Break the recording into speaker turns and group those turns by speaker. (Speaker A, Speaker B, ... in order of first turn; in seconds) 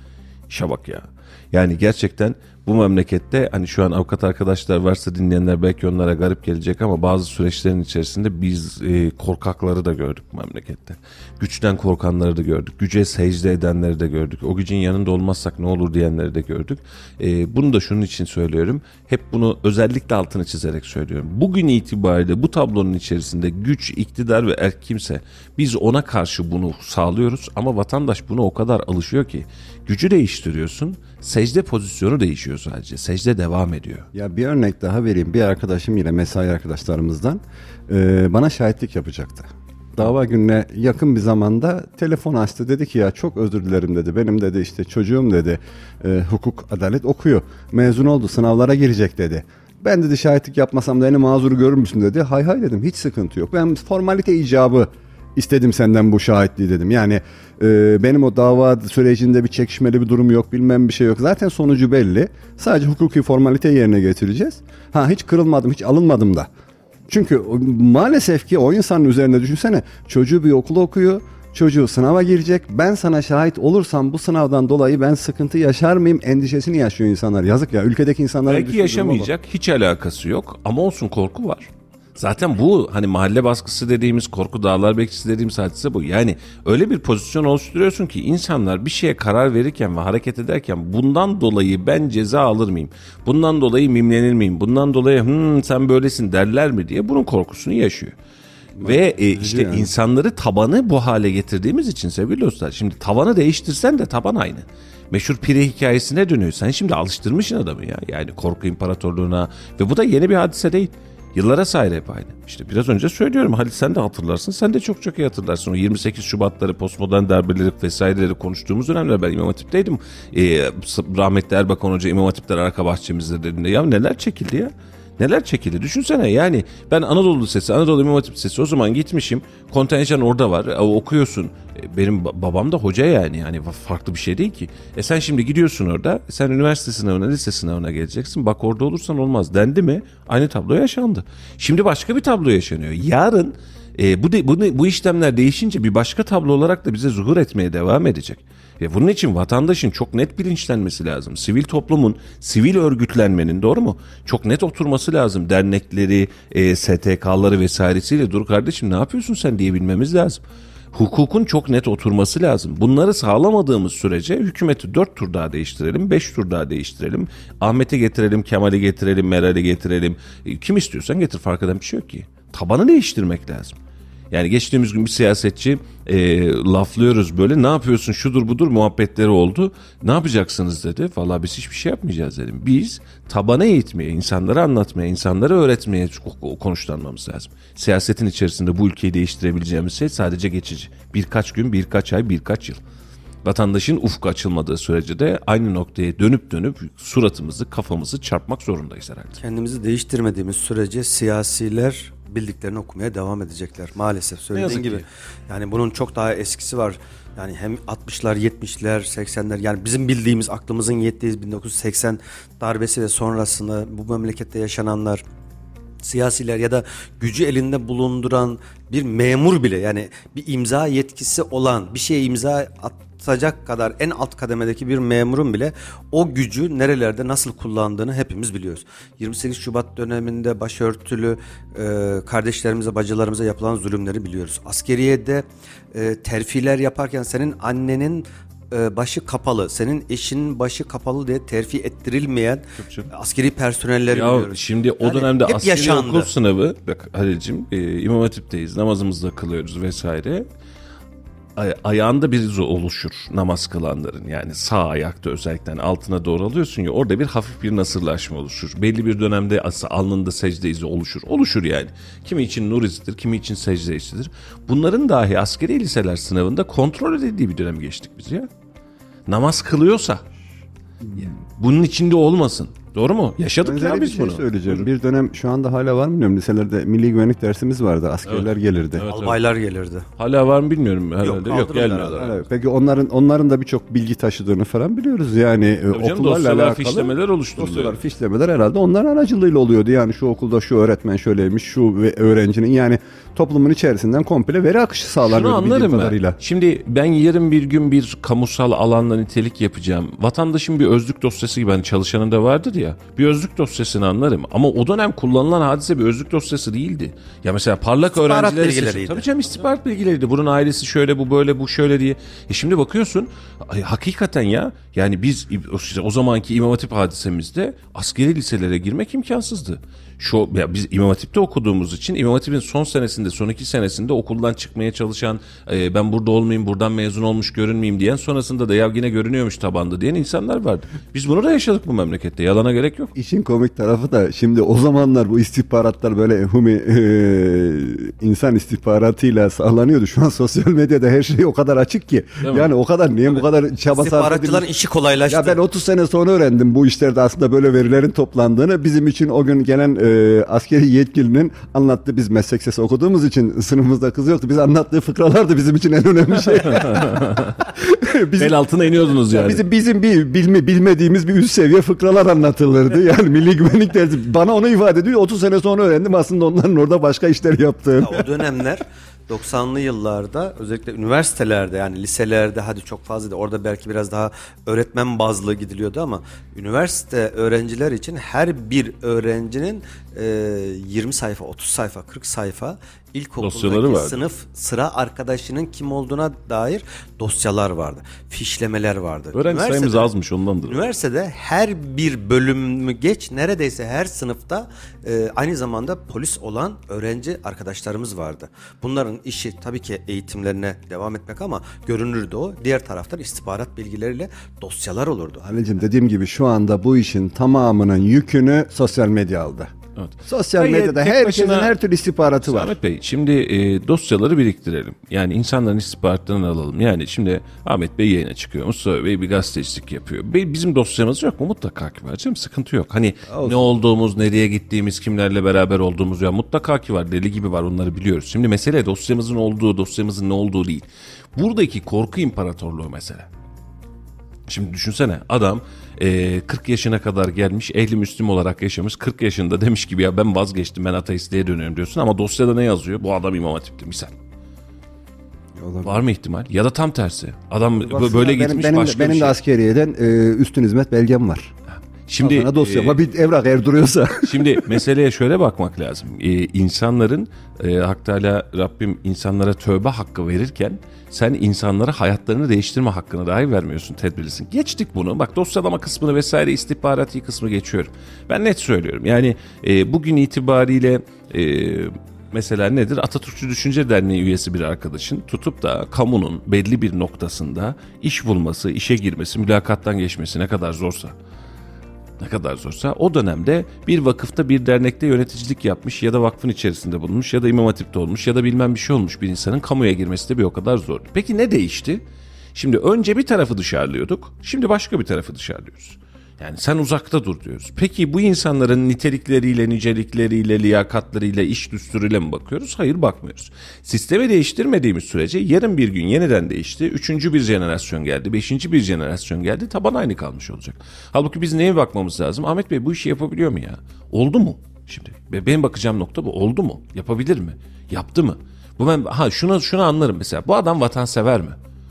Speaker A: 0.5-34.1, 78.5-98.1, 98.8-160.4, 160.9-173.8, 174.3-192.8, 193.4-199.4, 204.5-205.1, 242.8-243.1, 244.1-250.5, 251.6-268.5, 269.3-270.2, 271.1-274.9, 278.2-279.4, 280.2-282.3, 285.9-287.9, 295.2-333.1, 342.4-342.7, 356.7-357.6, 358.4-359.6, 383.4-384.2, 389.3-390.9, 410.0-411.8, 412.4-433.3, 434.5-444.1, 445.8-449.4, 451.7-453.1, 454.2-481.1, 482.2-492.0, 492.5-521.6
Speaker B: 34.1-66.5, 67.1-79.3, 98.7-99.9, 273.6-279.1, 282.1-296.4, 333.1-344.7, 345.3-358.6, 359.2-368.2, 405.4-409.7, 410.2-412.8, 423.3-423.7, 445.6-446.0, 447.8-451.5, 452.2-454.7
Speaker C: 199.4-215.2, 216.0-246.3, 279.1-280.1, 281.2-282.3, 308.1-309.2, 343.9-345.6, 368.0-390.1, 390.6-405.4